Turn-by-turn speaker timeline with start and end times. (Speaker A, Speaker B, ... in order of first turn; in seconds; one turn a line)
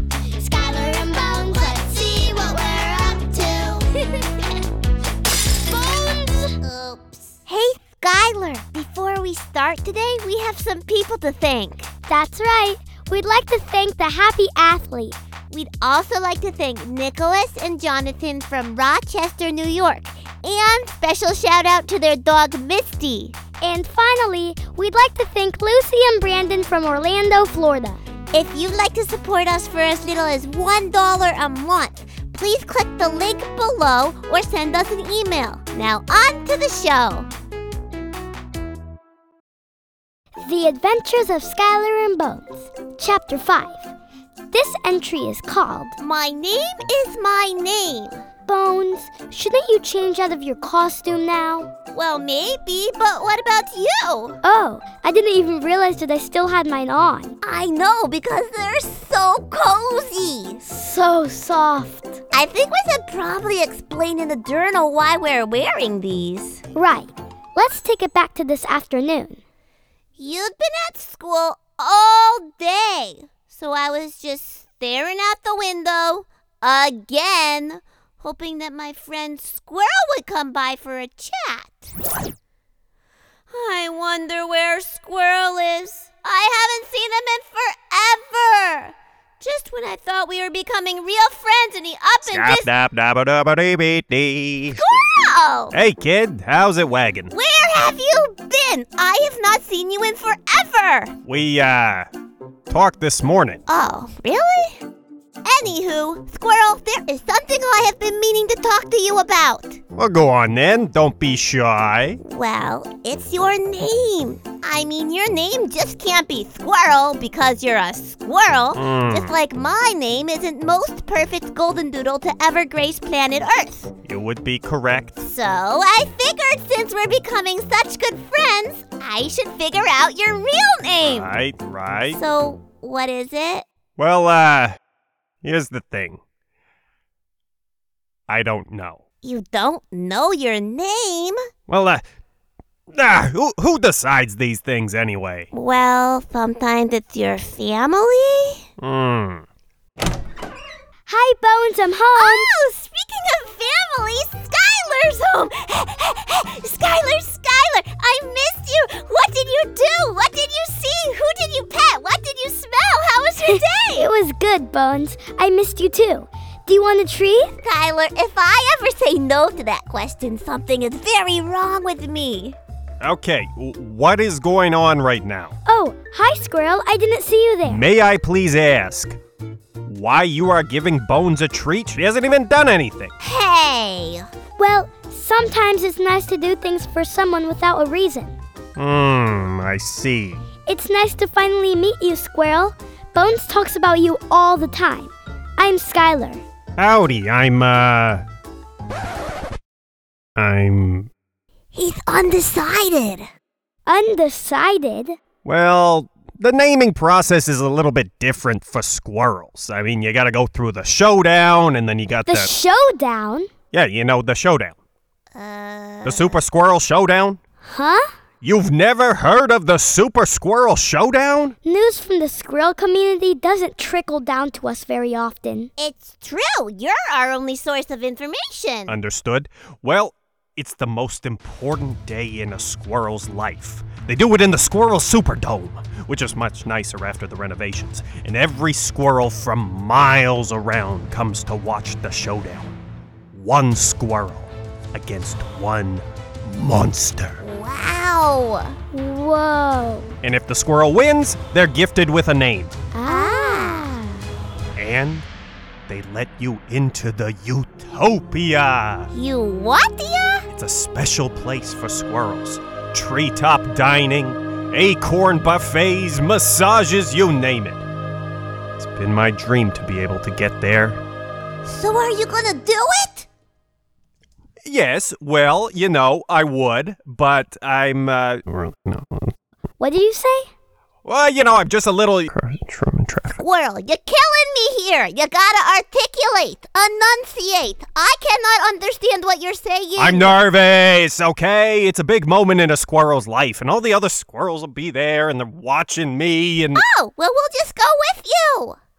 Speaker A: 0.3-3.8
Speaker B: 1.5-3.8
Speaker A: 5.7-6.5
Speaker B: 6.6-11.9
Speaker A: 12.1-15.2
Speaker B: 15.5-23.4
Speaker A: 23.6-28.0
Speaker B: 28.3-37.3
Speaker A: 40.4-43.9
Speaker A: 44.5-46.0
Speaker B: 46.0-48.2
Speaker A: 48.5-51.7
Speaker B: 51.9-54.4
Speaker A: 54.4-57.3
Speaker B: 57.4-60.6
Speaker A: 60.6-62.2
Speaker B: 62.3-66.6
Speaker A: 66.8-69.4
Speaker B: 70.2-81.9
Speaker B: 83.5-92.7
Speaker C: 92.2-94.8
Speaker B: 94.7-95.7
Speaker C: 95.7-97.3
Speaker B: 97.3-101.1
Speaker C: 101.2-102.1
Speaker C: 102.7-103.6
Speaker B: 103.7-104.8
Speaker B: 105.4-109.8
Speaker C: 110.0-112.2
Speaker B: 112.2-123.9
Speaker C: 118.7-119.3
Speaker C: 124.0-125.2
Speaker B: 125.2-131.3
Speaker C: 131.1-132.2
Speaker B: 132.1-133.7
Speaker C: 134.0-134.8
Speaker C: 135.4-136.2
Speaker C: 138.3-139.0
Speaker B: 139.2-141.4
Speaker C: 141.7-142.0
Speaker C: 142.9-145.5
Speaker B: 145.5-148.6
Speaker C: 148.8-149.4
Speaker A: 151.1-152.5
Speaker B: 152.2-164.1
Speaker A: 163.5-167.5
Speaker B: 167.6-172.6
Speaker C: 173.0-175.5
Speaker A: 175.7-177.8
Speaker C: 177.6-179.2
Speaker C: 179.8-183.1
Speaker B: 183.2-184.2
Speaker A: 184.6-188.4
Speaker C: 188.8-190.4
Speaker A: 190.7-196.4
Speaker C: 196.8-198.2
Speaker C: 200.4-201.1
Speaker B: 201.7-203.3
Speaker A: 203.9-205.2
Speaker C: 205.4-212.5
Speaker A: 212.3-213.5
Speaker C: 213.7-214.8
Speaker B: 215.3-216.4
Speaker C: 216.1-217.4
Speaker A: 217.7-218.1
Speaker C: 218.4-221.6
Speaker A: 221.7-225.7
Speaker B: 225.8-229.0
Speaker C: 228.9-242.8
Speaker C: 243.3-247.4
Speaker B: 247.4-248.7
Speaker A: 248.9-250.1
Speaker C: 250.2-252.7
Speaker A: 252.9-254.2
Speaker B: 253.0-253.9
Speaker C: 254.8-255.2
Speaker C: 255.9-259.1
Speaker B: 259.1-260.4
Speaker C: 260.5-267.8
Speaker C: 268.8-271.0
Speaker B: 271.6-273.3
Speaker C: 274.6-279.3
Speaker A: 279.8-280.5
Speaker C: 281.1-283.4
Speaker B: 283.4-290.4
Speaker C: 290.0-296.8
Speaker B: 296.7-298.8